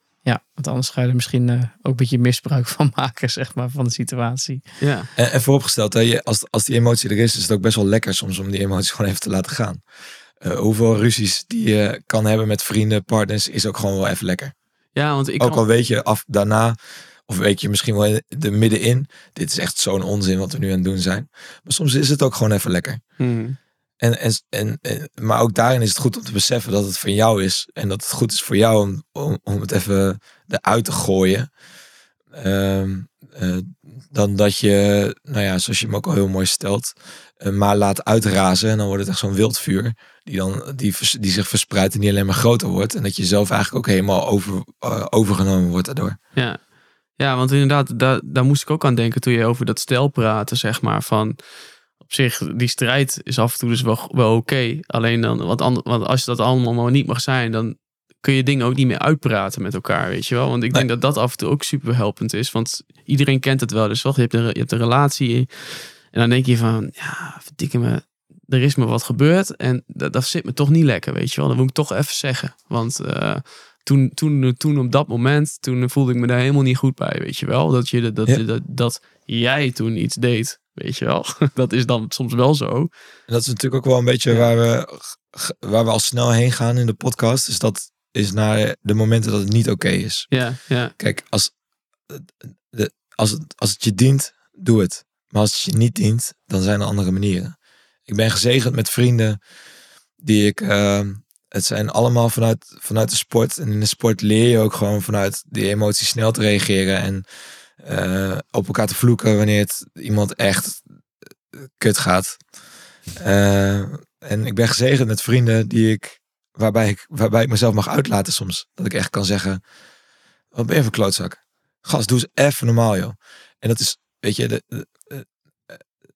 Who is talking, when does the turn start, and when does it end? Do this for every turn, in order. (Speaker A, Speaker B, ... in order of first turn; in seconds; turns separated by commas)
Speaker A: 0.2-4.6, Speaker B: 4.8-5.1, Speaker C: 5.2-9.8, Speaker C: 10.4-14.5, Speaker B: 14.9-15.6, Speaker C: 15.4-23.0, Speaker B: 23.2-23.6, Speaker C: 24.0-31.5, Speaker C: 32.3-46.2, Speaker B: 46.3-82.9, Speaker C: 83.3-90.3, Speaker B: 90.3-90.9, Speaker C: 91.0-91.5, Speaker C: 92.1-97.5, Speaker C: 98.1-99.4, Speaker C: 100.2-107.2, Speaker C: 107.8-110.8, Speaker C: 111.5-112.4, Speaker C: 113.2-119.6, Speaker C: 120.5-125.8